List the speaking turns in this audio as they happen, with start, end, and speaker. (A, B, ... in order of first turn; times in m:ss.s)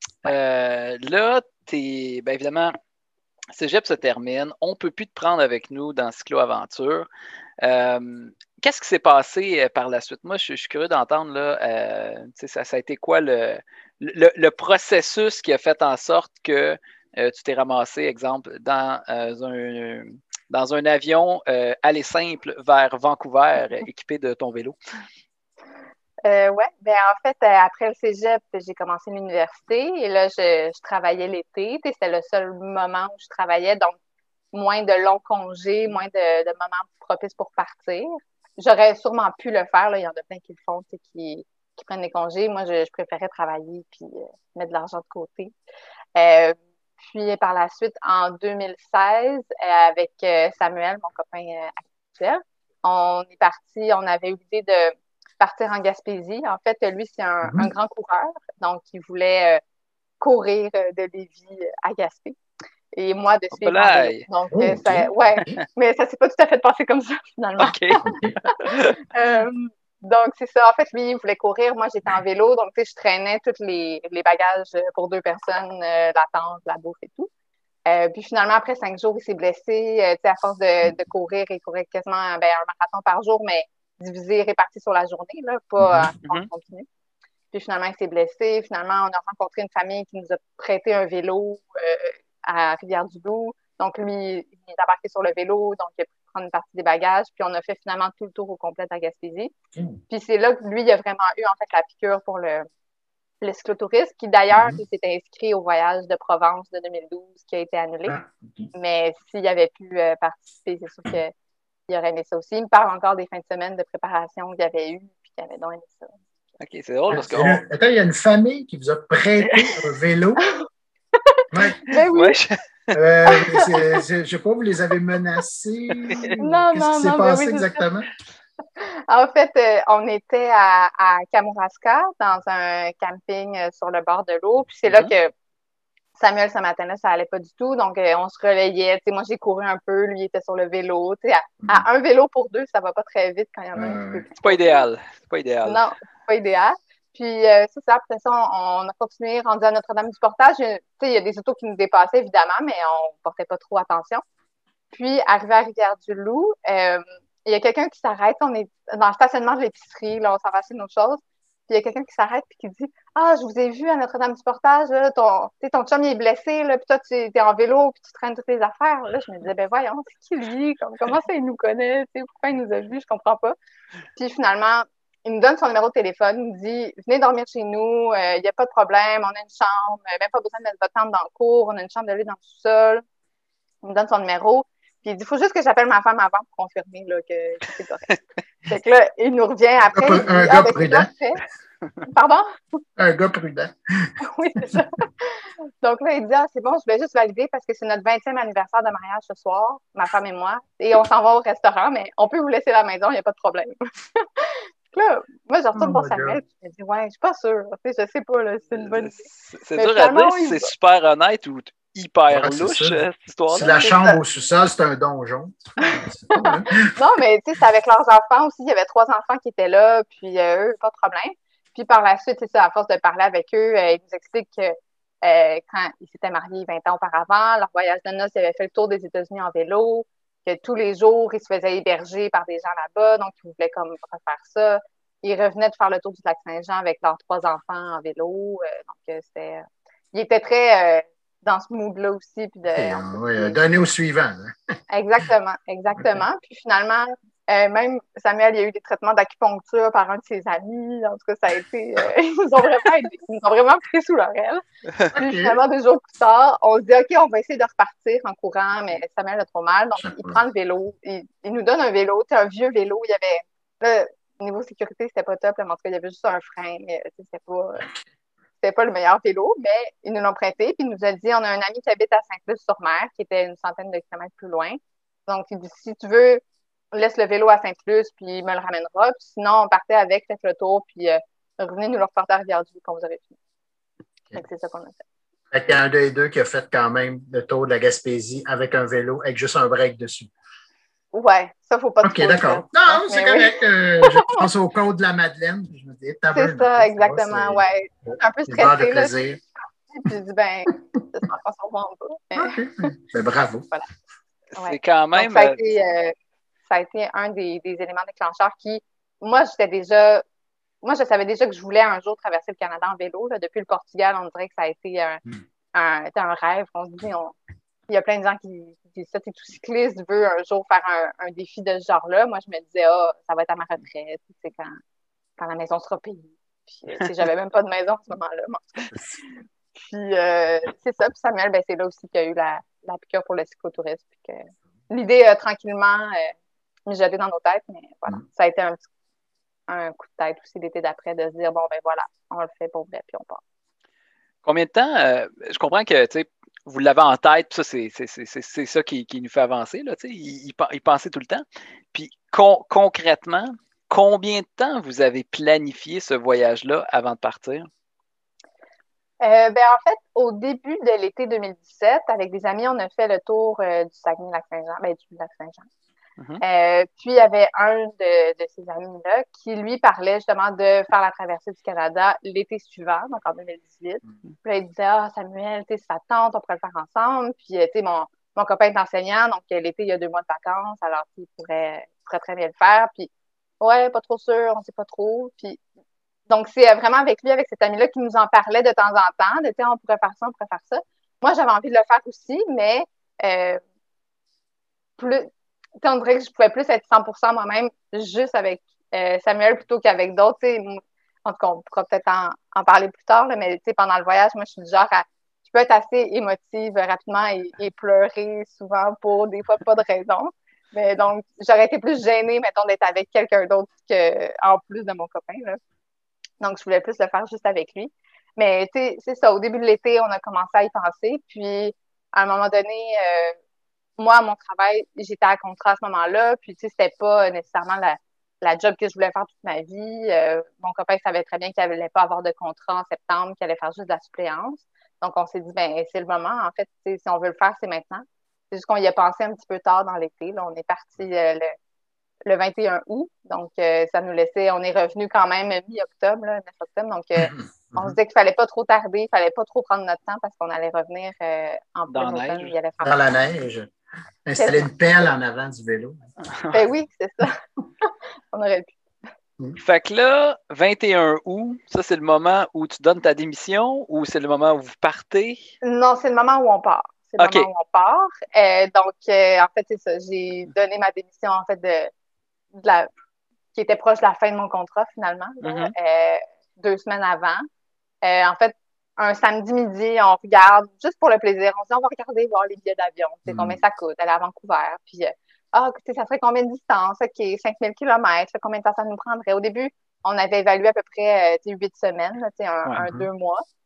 0:00.2-0:02.8 A
0:03.5-0:07.1 A
0:07.6-0:24.8 A
0:26.2-0:34.0 B
0:34.5-0:45.6 B
0:46.2-0:59.6 B
0:57.4-0:57.7 C
1:00.2-1:02.4 B
1:02.9-1:17.3 B
1:03.6-1:04.3 A
1:04.5-1:05.6 C
1:07.6-1:08.0 A
1:08.0-1:08.4 C
1:08.6-1:09.0 A
1:17.9-1:26.9 B
1:25.8-1:26.1 C
1:27.5-1:39.5 B
1:40.1-1:42.7 B
1:43.4-1:48.2 B
1:44.5-1:44.8 C
1:48.1-1:48.7 C
1:48.7-1:51.3 B
1:51.9-1:56.2 B
1:56.6-1:57.6 A
1:57.1-2:00.5 C
1:59.4-1:59.8 A
2:00.4-2:00.7 B
2:01.2-2:02.4 B
2:01.5-2:01.8 C
2:02.0-2:02.9 A
2:02.9-2:08.1 C
2:03.3-2:03.7 B
2:06.0-2:06.4 A
2:06.4-2:07.8 B
2:08.8-2:15.3 B
2:16.2-2:24.8 B
2:23.8-2:24.2 C
2:24.4-2:25.8 A
2:25.6-2:34.2 B
2:34.9-2:53.6 B
2:54.2-3:03.0 B
3:03.8-3:11.4 B
3:09.9-3:11.1 C
3:12.0-3:12.5 B
3:13.0-3:14.2 C
3:14.2-3:30.7 B
3:25.8-3:26.4 C
3:28.8-3:33.9 A
3:32.3-3:36.9 C
3:33.8-3:34.2 B
3:35.8-4:03.6 B
4:02.7-4:04.6 C
4:04.9-4:14.6 B
4:15.1-4:15.6 C
4:15.1-4:27.9 B
4:20.0-4:20.4 C
4:28.6-4:36.4 B
4:36.9-4:43.4 B
4:44.4-4:45.0 B
4:45.5-4:50.3 C
4:51.1-4:54.4 B
4:52.0-4:57.6 C
4:56.3-4:59.2 B
4:58.5-4:59.4 C
4:59.9-5:02.9 B
5:02.4-5:03.7 C
5:04.5-5:05.6 A
5:04.6-5:06.2 B
5:06.7-5:10.2 B
5:10.8-5:15.2 B
5:15.7-5:17.4 B
5:17.9-5:24.8 B
5:25.4-5:28.9 B
5:29.7-5:36.4 B
5:36.9-5:38.8 B
5:39.7-5:43.4 B
5:44.4-5:57.7 A
5:59.2-6:05.7 B
6:06.4-6:23.1 B
6:23.6-6:25.6 B
6:26.3-6:33.6 B
6:35.0-6:35.3 B
6:35.8-6:55.6 B
6:56.4-7:03.4 B
7:04.0-7:21.5 B
7:22.3-7:33.0 B
7:27.2-7:28.0 C
7:31.9-7:32.5 A
7:32.8-7:33.7 C
7:34.3-7:36.0 C
7:34.4-7:34.7 B
7:36.5-7:38.8 B
7:39.6-7:45.4 A
7:45.6-7:51.9 B
7:47.2-7:47.5 A
7:52.6-7:52.9 B
7:53.5-7:57.5 B
7:55.4-7:55.7 A
7:58.0-8:13.4 B
8:03.3-8:03.6 C
8:12.8-8:13.1 C